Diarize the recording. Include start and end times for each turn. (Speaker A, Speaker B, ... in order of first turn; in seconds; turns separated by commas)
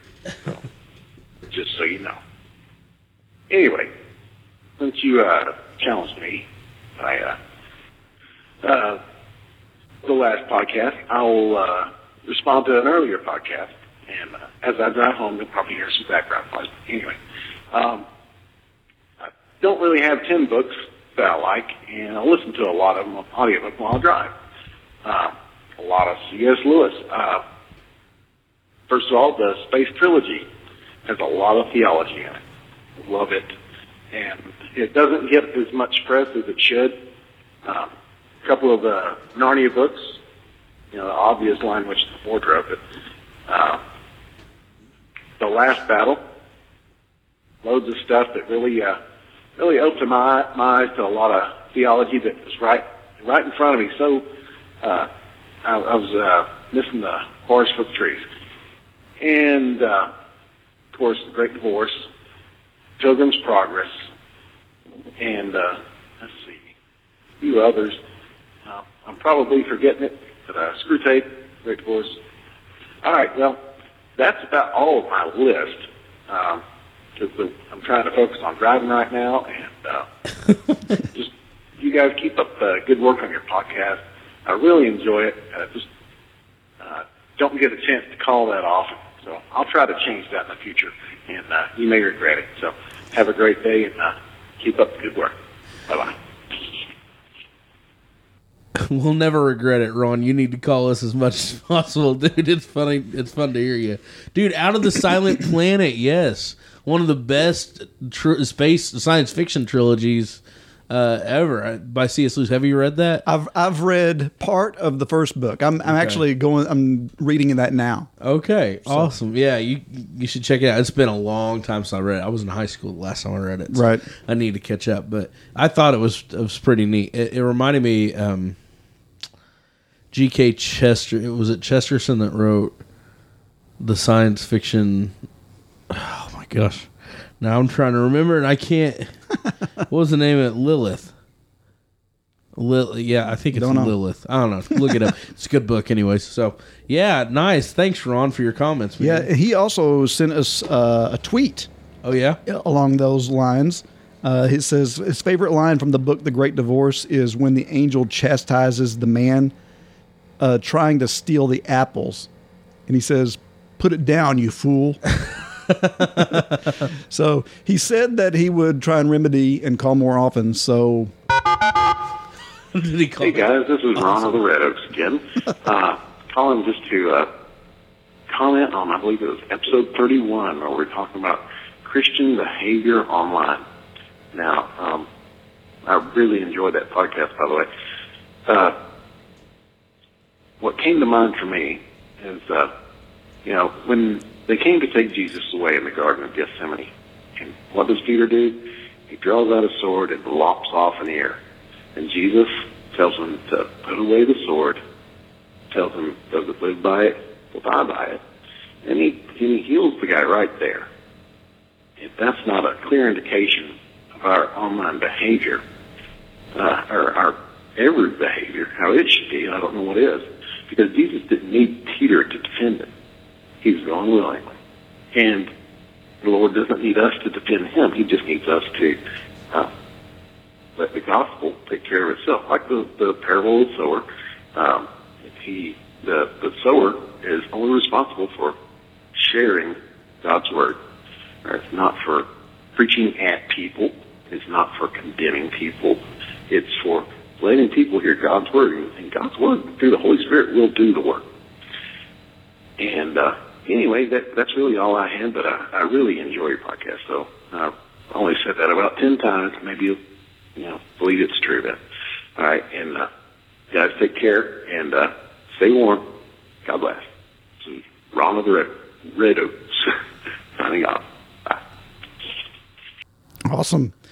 Speaker A: 1.5-2.1, Speaker A: 3.5-3.9, Speaker A: 4.8-6.5, Speaker A: 7.0-7.4, Speaker A: 8.6-9.0, Speaker A: 10.0-17.2, Speaker A: 17.7-18.0, Speaker A: 19.6-24.3, Speaker A: 25.0-27.4, Speaker A: 28.9-30.4, Speaker A: 31.1-32.4, Speaker A: 33.0-33.5, Speaker A: 34.1-37.0, Speaker A: 37.6-37.9, Speaker A: 38.4-40.1, Speaker A: 40.9-42.8, Speaker A: 43.5-43.8, Speaker A: 45.4-46.2, Speaker A: 47.6-49.0, Speaker A: 49.6-54.2, Speaker A: 54.8-55.1, Speaker A: 55.6-58.2, Speaker A: 59.2-60.1, Speaker A: 60.9-62.0, Speaker A: 63.0-63.9, Speaker A: 65.2-66.6, Speaker A: 67.4-68.0, Speaker A: 68.7-72.2, Speaker A: 73.0-73.6, Speaker A: 74.2-76.6, Speaker A: 77.2-80.0, Speaker A: 81.0-85.8, Speaker A: 86.8-95.3, Speaker A: 95.9-96.1, Speaker B: 98.7-113.2, Speaker C: 113.2-118.1, Speaker B: 115.8-116.2, Speaker B: 118.2-128.6, Speaker C: 118.8-119.1, Speaker C: 123.7-124.0, Speaker B: 130.1-132.8, Speaker B: 133.8-135.1, Speaker B: 135.9-139.1, Speaker B: 139.9-141.1, Speaker B: 142.5-149.3, Speaker C: 143.5-143.9, Speaker C: 149.0-151.7, Speaker B: 152.0-152.4, Speaker C: 152.4-159.5, Speaker C: 160.4-162.3, Speaker C: 162.9-165.0, Speaker B: 165.7-166.7, Speaker C: 166.0-166.5, Speaker C: 167.1-171.1, Speaker B: 172.7-173.4, Speaker A: 173.2-177.3, Speaker A: 178.3-183.6, Speaker A: 184.3-185.1, Speaker A: 185.8-187.7, Speaker A: 188.4-188.8, Speaker A: 190.6-192.7, Speaker A: 193.4-201.4, Speaker A: 201.9-204.8, Speaker A: 205.7-208.2, Speaker A: 208.8-210.9, Speaker A: 212.0-215.6, Speaker A: 216.5-222.9, Speaker A: 223.6-224.5, Speaker A: 225.1-225.5, Speaker A: 226.2-229.0, Speaker A: 230.8-238.6, Speaker A: 239.1-240.8, Speaker A: 241.4-251.2, Speaker A: 252.8-260.0, Speaker A: 260.6-261.8, Speaker A: 262.4-263.1, Speaker A: 263.7-266.1, Speaker A: 266.6-267.1, Speaker A: 267.6-270.0, Speaker A: 270.6-271.6, Speaker C: 273.4-273.9